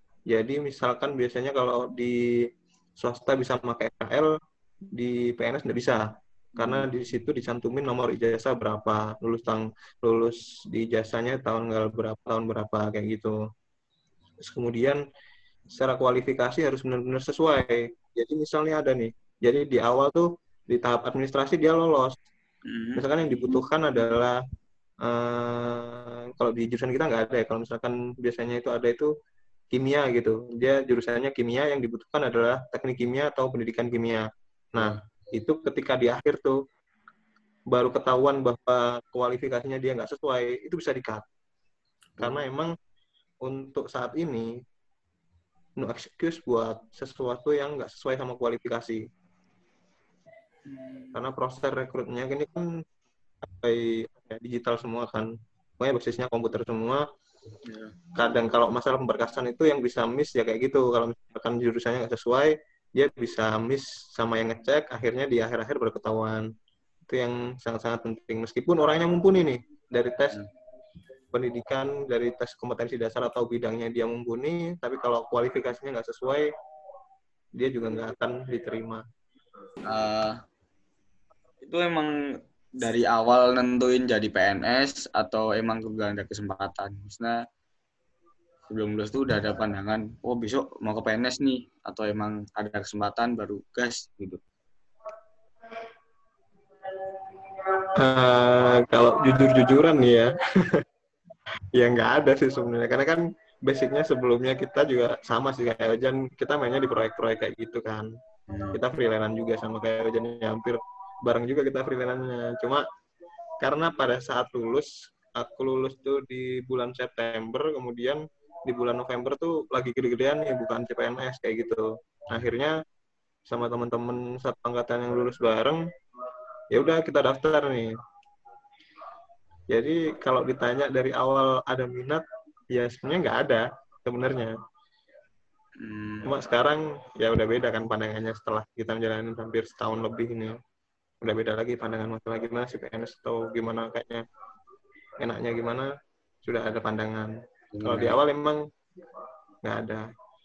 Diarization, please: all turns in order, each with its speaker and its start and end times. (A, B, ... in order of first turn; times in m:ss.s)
0:00.3-0:02.2 A
0:03.0-0:04.3 A
0:04.9-0:06.0 A
0:06.6-0:13.4 A
0:06.6-0:06.8 B
0:14.4-0:15.0 A
0:15.7-0:22.2 A
0:22.6-0:23.0 B
0:23.0-0:24.4 A
0:25.0-0:29.1 A
0:29.7-0:36.6 A
0:34.8-0:35.0 B
0:37.7-0:41.2 A
0:42.2-0:42.4 B
0:42.2-0:42.7 A
0:43.4-0:44.5 A
0:45.8-0:49.0 A
0:50.7-0:51.1 B
0:51.1-0:52.8 A
0:53.4-0:57.0 A
0:57.6-0:57.9 B
0:58.1-1:06.5 A
1:07.1-1:10.4 A
1:11.3-1:16.5 A
1:17.6-1:19.0 A
1:19.8-1:20.4 B
1:21.6-1:22.1 B
1:22.8-1:27.4 B
1:28.7-1:34.4 B
1:38.0-1:40.8 A
1:41.7-1:48.1 A
1:48.5-1:48.8 B
1:48.7-1:52.8 A
1:53.6-2:02.8 A
2:03.5-2:05.8 A
2:06.7-2:07.9 A
2:09.7-2:14.5 A
2:15.8-2:16.3 B
2:16.2-2:20.6 A
2:21.2-2:24.2 A
2:25.2-2:25.9 A
2:26.4-2:27.3 A
2:27.7-2:28.2 B
2:27.8-2:28.6 A
2:29.6-2:30.0 A